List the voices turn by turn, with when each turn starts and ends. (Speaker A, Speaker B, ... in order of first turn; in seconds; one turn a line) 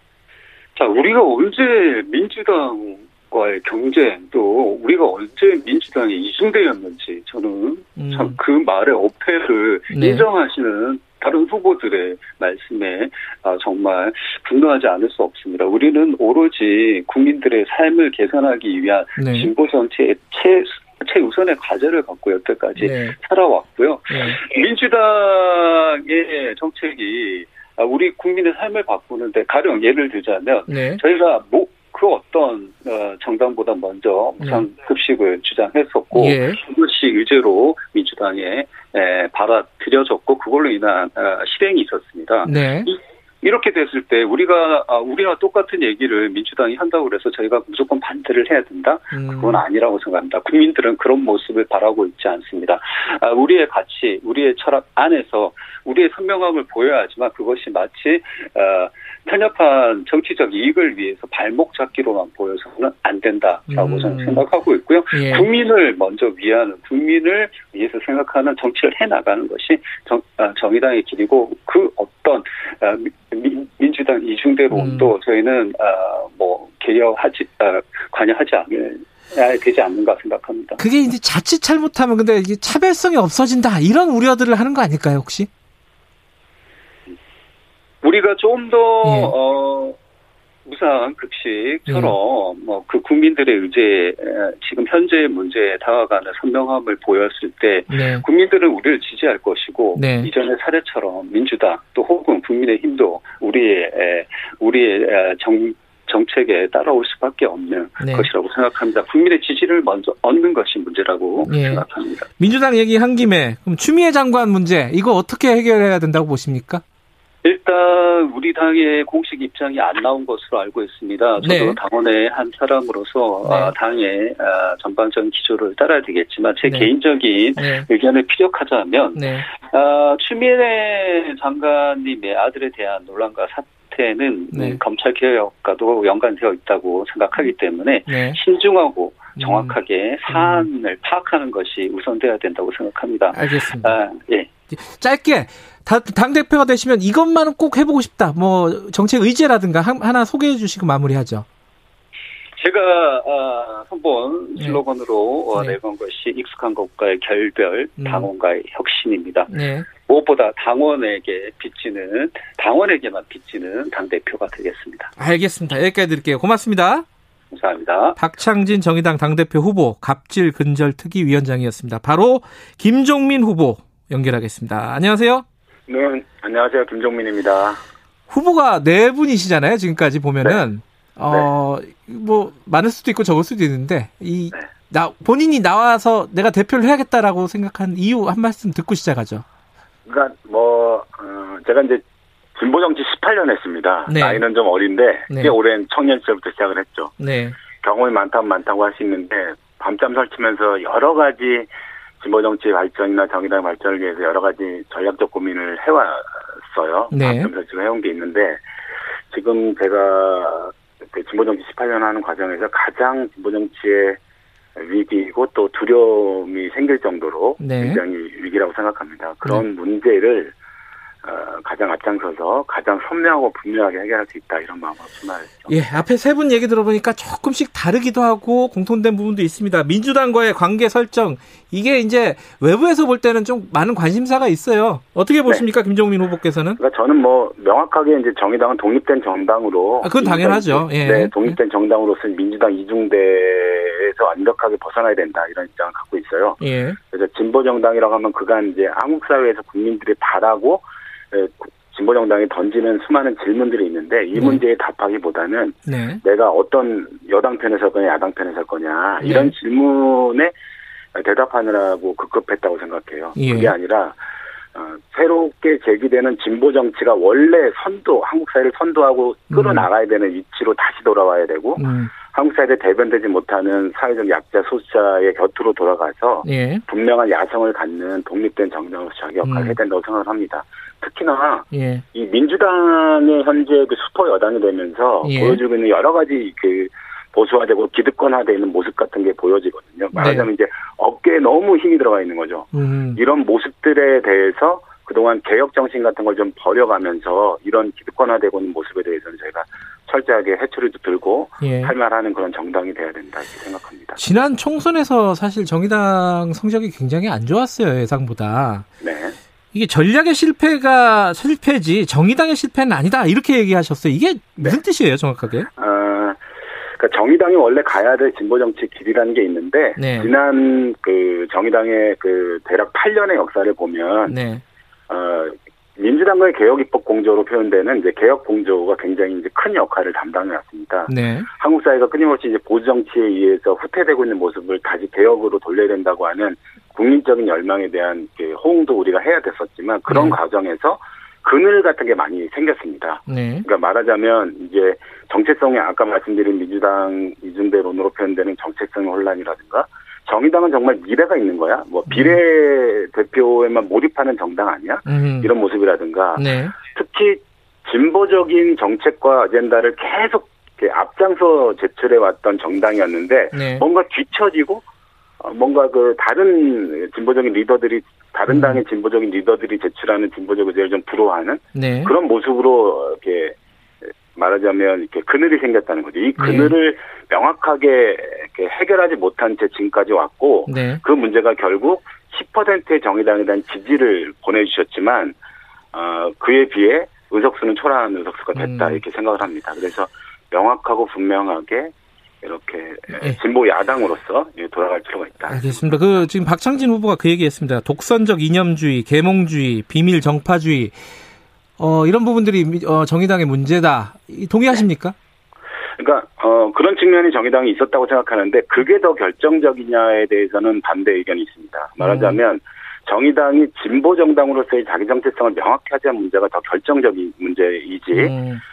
Speaker A: 0.8-80.8
Speaker B: 8.0-8.4
Speaker B: 9.9-10.2
Speaker B: 19.2-19.5
Speaker B: 22.8-23.2
Speaker B: 24.1-24.4
Speaker B: 30.7-31.0
Speaker B: 36.1-36.6
Speaker B: 42.4-42.9
Speaker B: 49.1-49.6
Speaker B: 63.7-64.4
Speaker B: 65.1-65.5
Speaker B: 74.7-75.1
Speaker B: 80.8-85.5
Speaker A: 88.0-90.0
Speaker B: 89.0-89.3
Speaker A: 90.7-112.3
Speaker B: 91.9-92.2
Speaker B: 97.9-98.2
Speaker B: 99.9-100.3
Speaker B: 108.0-108.3
Speaker B: 111.4-111.8
Speaker B: 112.4-116.8
Speaker A: 117.4-144.5
Speaker B: 121.4-121.8
Speaker B: 123.4-123.7
Speaker B: 126.6-126.9
Speaker B: 127.6-127.9
Speaker B: 129.1-129.5
Speaker B: 134.5-134.8
Speaker B: 138.1-138.4
Speaker B: 139.4-139.8
Speaker B: 140.3-140.7
Speaker B: 143.3-143.9
Speaker B: 144.7-151.4
Speaker A: 152.6-165.1
Speaker B: 158.0-158.3
Speaker B: 159.5-159.9
Speaker B: 165.2-167.1
Speaker A: 167.5-168.2
Speaker B: 168.2-175.4
Speaker C: 175.9-177.8
Speaker B: 178.3-189.4
Speaker C: 190.1-192.0
Speaker C: 192.6-197.1
Speaker B: 194.1-194.4
Speaker B: 195.3-195.6
Speaker B: 197.2-197.6
Speaker C: 197.8-201.7
Speaker C: 202.2-208.6
Speaker B: 207.1-207.5
Speaker C: 209.3-214.2
Speaker C: 214.8-220.5
Speaker B: 217.6-218.0
Speaker C: 221.2-226.0
Speaker B: 225.7-236.8
Speaker C: 236.8-246.6
Speaker B: 240.0-241.6
Speaker B: 246.6-247.0
Speaker C: 247.1-260.5
Speaker B: 254.3-254.6
Speaker B: 255.9-256.2
Speaker B: 259.2-259.5
Speaker C: 261.1-264.2
Speaker B: 263.4-263.7
Speaker C: 264.7-304.2
Speaker B: 269.5-269.9
Speaker B: 271.8-272.1
Speaker B: 276.4-276.8
Speaker B: 279.4-279.8
Speaker B: 281.7-282.0
Speaker B: 285.2-285.6
Speaker B: 290.1-290.5
Speaker B: 292.7-293.2
Speaker B: 301.6-301.9
Speaker B: 304.2-308.9
Speaker C: 309.0-309.4
Speaker B: 309.7-315.7
Speaker C: 315.8-316.4
Speaker C: 317.0-324.4
Speaker B: 320.0-320.3
Speaker B: 324.3-324.6
Speaker C: 325.1-364.8
Speaker B: 331.1-331.5
Speaker B: 340.1-340.4
Speaker B: 343.3-343.6
Speaker B: 352.1-352.4
Speaker B: 355.1-355.5
Speaker B: 356.4-356.8
Speaker B: 363.5-363.8
Speaker C: 365.4-373.6
Speaker B: 368.5-368.8
Speaker B: 371.7-372.1
Speaker C: 374.3-385.4
Speaker B: 376.4-376.7
Speaker B: 380.7-381.0
Speaker C: 385.9-395.9
Speaker B: 388.6-389.0
Speaker B: 395.5-401.0
Speaker B: 401.8-405.1
Speaker C: 406.0-418.3
Speaker B: 412.0-412.4
Speaker B: 418.1-418.6